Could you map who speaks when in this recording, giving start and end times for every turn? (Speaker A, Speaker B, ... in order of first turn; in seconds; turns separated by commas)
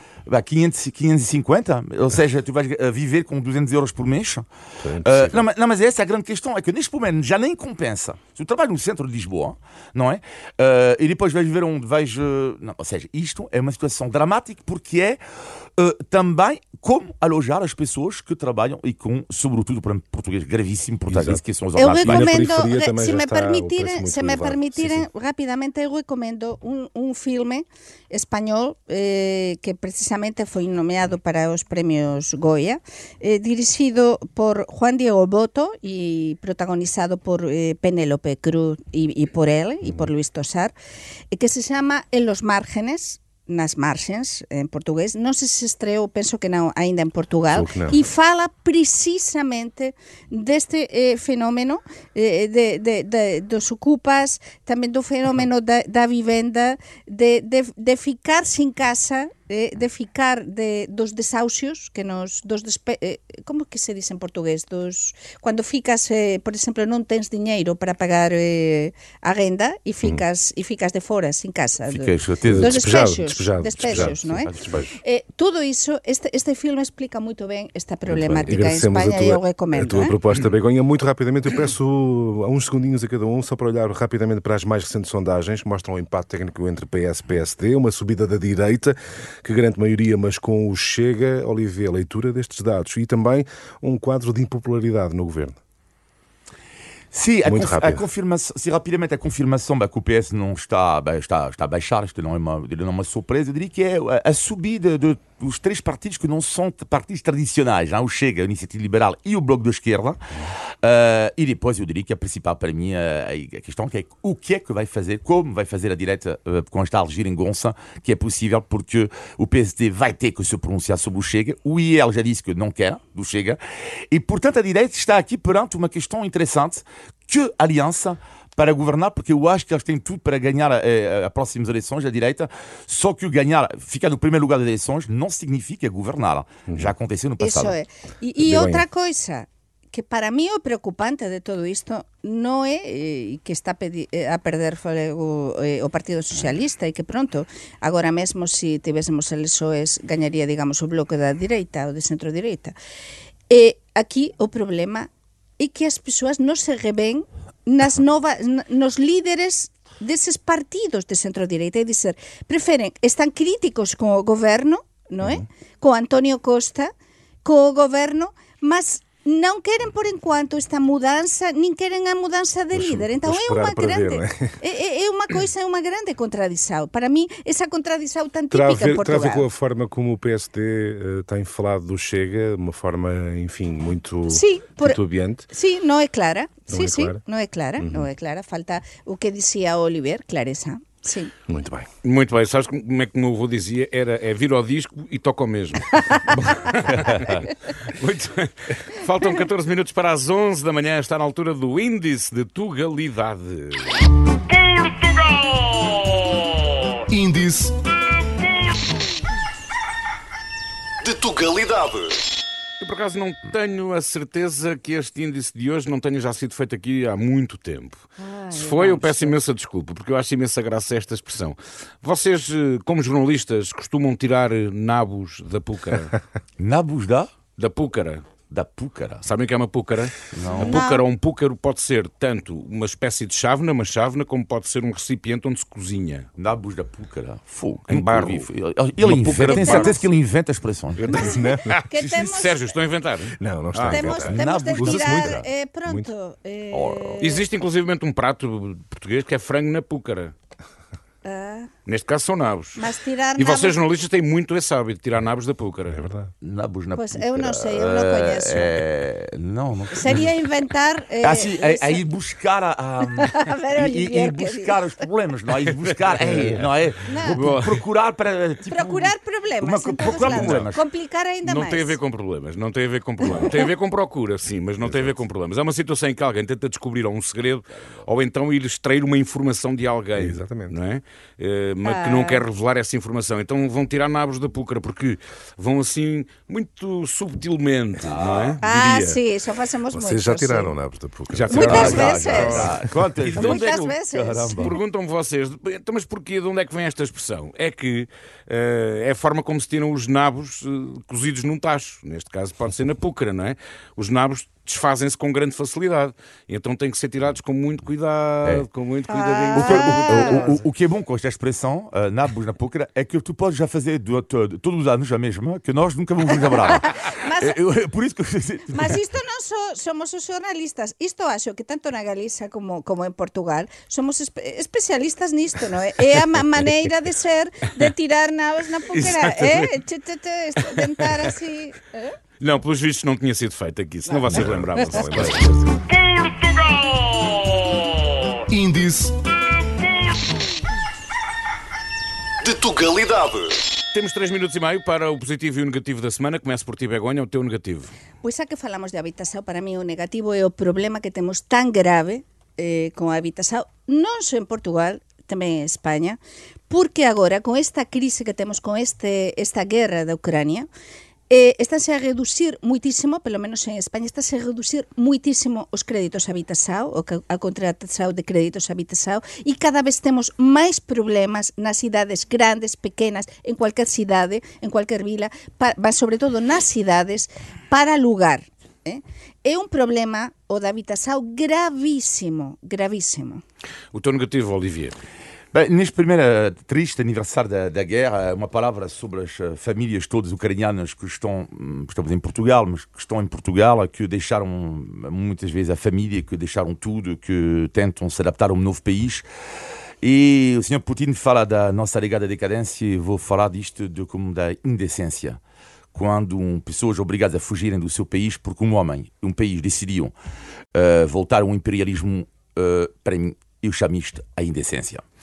Speaker A: 0.3-4.5, Speaker B: 4.8-5.4, Speaker A: 5.0-15.2, Speaker A: 15.8-22.5, Speaker B: 21.1-21.4, Speaker C: 21.8-40.7, Speaker B: 22.0-25.1, Speaker C: 41.3-80.2, Speaker B: 47.5-48.0, Speaker A: 71.9-72.8, Speaker B: 72.4-74.9, Speaker A: 73.8-74.8, Speaker B: 78.1-95.5, Speaker A: 97.1-110.2, Speaker B: 97.5-98.0, Speaker A: 110.8-123.6, Speaker A: 124.1-137.8, Speaker C: 137.4-152.8, Speaker B: 138.4-138.8, Speaker C: 153.5-166.9, Speaker C: 167.4-179.5, Speaker B: 172.7-174.6, Speaker B: 178.5-185.5, Speaker C: 184.3-191.3, Speaker B: 186.7-187.2, Speaker B: 187.8-188.1, Speaker B: 191.5-191.9, Speaker D: 192.0-204.0, Speaker A: 196.4-197.3, Speaker E: 207.1-207.8, Speaker E: 211.0-212.2, Speaker D: 212.8-226.1, Speaker C: 218.2-219.3, Speaker A: 226.6-227.3, Speaker D: 227.6-228.3, Speaker A: 228.5-229.3, Speaker D: 229.2-236.3, Speaker A: 230.3-230.9, Speaker C: 230.6-231.0, Speaker A: 236.4-241.2, Speaker D: 237.9-238.5, Speaker D: 239.0-240.0, Speaker B: 239.3-239.9, Speaker D: 241.0-244.1, Speaker B: 241.1-241.8, Speaker C: 241.1-242.8, Speaker B: 243.4-246.1, Speaker C: 243.9-247.4, Speaker A: 243.9-245.5, Speaker A: 246.7-247.2, Speaker D: 247.2-250.3, Speaker C: 251.2-251.7, Speaker D: 251.9-252.8, Speaker C: 252.8-253.8, Speaker D: 253.4-256.0, Speaker B: 255.9-256.3, Speaker A: 256.4-260.3, Speaker C: 256.9-258.8, Speaker C: 259.9-262.0, Speaker A: 261.2-270.8, Speaker C: 263.0-265.0, Speaker D: 266.1-266.7, Speaker B: 266.2-266.6, Speaker C: 267.1-267.4, Speaker D: 267.4-267.8, Speaker C: 268.7-272.0, Speaker D: 270.1-270.6, Speaker D: 271.4-289.1, Speaker C: 273.3-273.7, Speaker B: 274.8-275.2, Speaker B: 280.1-280.8, Speaker C: 281.8-282.4, Speaker A: 288.0-288.7, Speaker C: 288.6-290.7, Speaker B: 289.9-292.9, Speaker D: 291.4-293.9, Speaker A: 291.5-294.7, Speaker C: 291.5-292.7, Speaker C: 293.3-294.7, Speaker D: 294.6-310.6, Speaker C: 309.1-310.5, Speaker A: 309.5-319.0, Speaker C: 316.4-317.6, Speaker C: 318.7-332.1, Speaker D: 328.9-329.7, Speaker D: 332.4-335.5, Speaker B: 334.1-335.9, Speaker E: 338.5-339.1, Speaker E: 342.4-343.6, Speaker D: 343.9-347.9, Speaker C: 348.2-356.2, Speaker C: 356.7-360.7, Speaker C: 361.3-383.4, Speaker D: 383.9-385.0, Speaker A: 385.5-399.2, Speaker A: 400.0-405.4, Speaker A: 405.9-410.1, Speaker A: 410.7-415.0